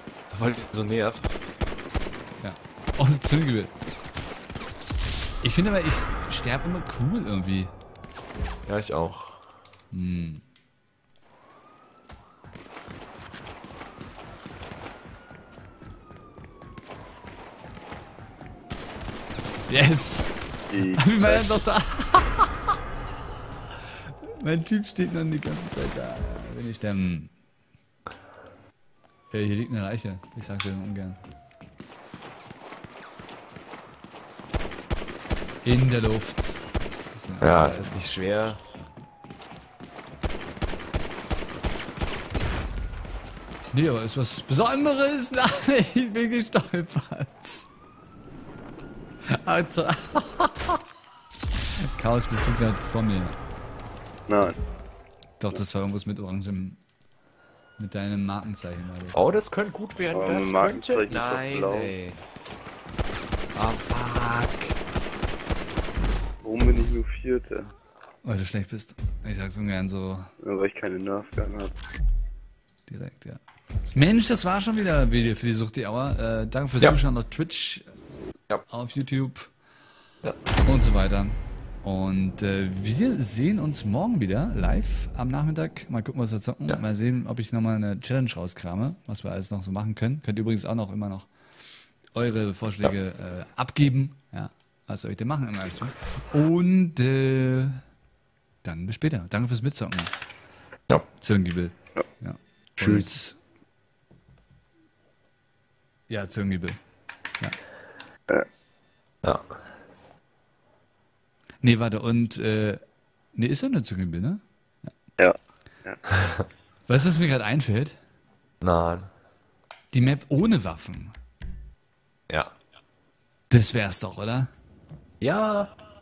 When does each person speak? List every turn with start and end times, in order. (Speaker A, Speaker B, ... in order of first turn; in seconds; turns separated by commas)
Speaker A: 0.3-1.4, Speaker B: 2.4-3.7, Speaker B: 5.4-7.7, Speaker A: 8.7-9.5, Speaker B: 9.9-10.4, Speaker B: 19.7-22.7, Speaker C: 20.7-21.5, Speaker B: 24.3-27.3, Speaker B: 29.3-31.2, Speaker B: 35.6-38.0, Speaker A: 37.4-38.6, Speaker B: 43.7-47.7, Speaker B: 49.2-50.8, Speaker B: 51.7-53.4, Speaker C: 54.3-54.5, Speaker B: 55.4-56.8, Speaker B: 57.8-59.3, Speaker A: 59.1-62.2, Speaker C: 60.1-61.9, Speaker A: 63.5-64.8, Speaker C: 66.4-67.7, Speaker B: 68.2-70.3, Speaker C: 70.4-71.7, Speaker B: 72.9-73.4, Speaker B: 73.9-77.9, Speaker B: 78.7-79.5, Speaker B: 80.6-91.3, Speaker B: 92.1-97.8, Speaker B: 98.6-100.1, Speaker B: 101.2-103.4, Speaker A: 102.8-103.2, Speaker B: 106.1-106.8, Speaker A: 109.2-109.5, Speaker B: 111.6-112.8, Speaker B: 113.3-114.9, Speaker C: 115.2-116.0, Speaker A: 116.1-116.4, Speaker B: 116.9-118.0, Speaker A: 118.6-119.1, Speaker B: 119.9-121.1, Speaker A: 122.3-122.5, Speaker B: 123.5-124.5, Speaker A: 125.2-125.7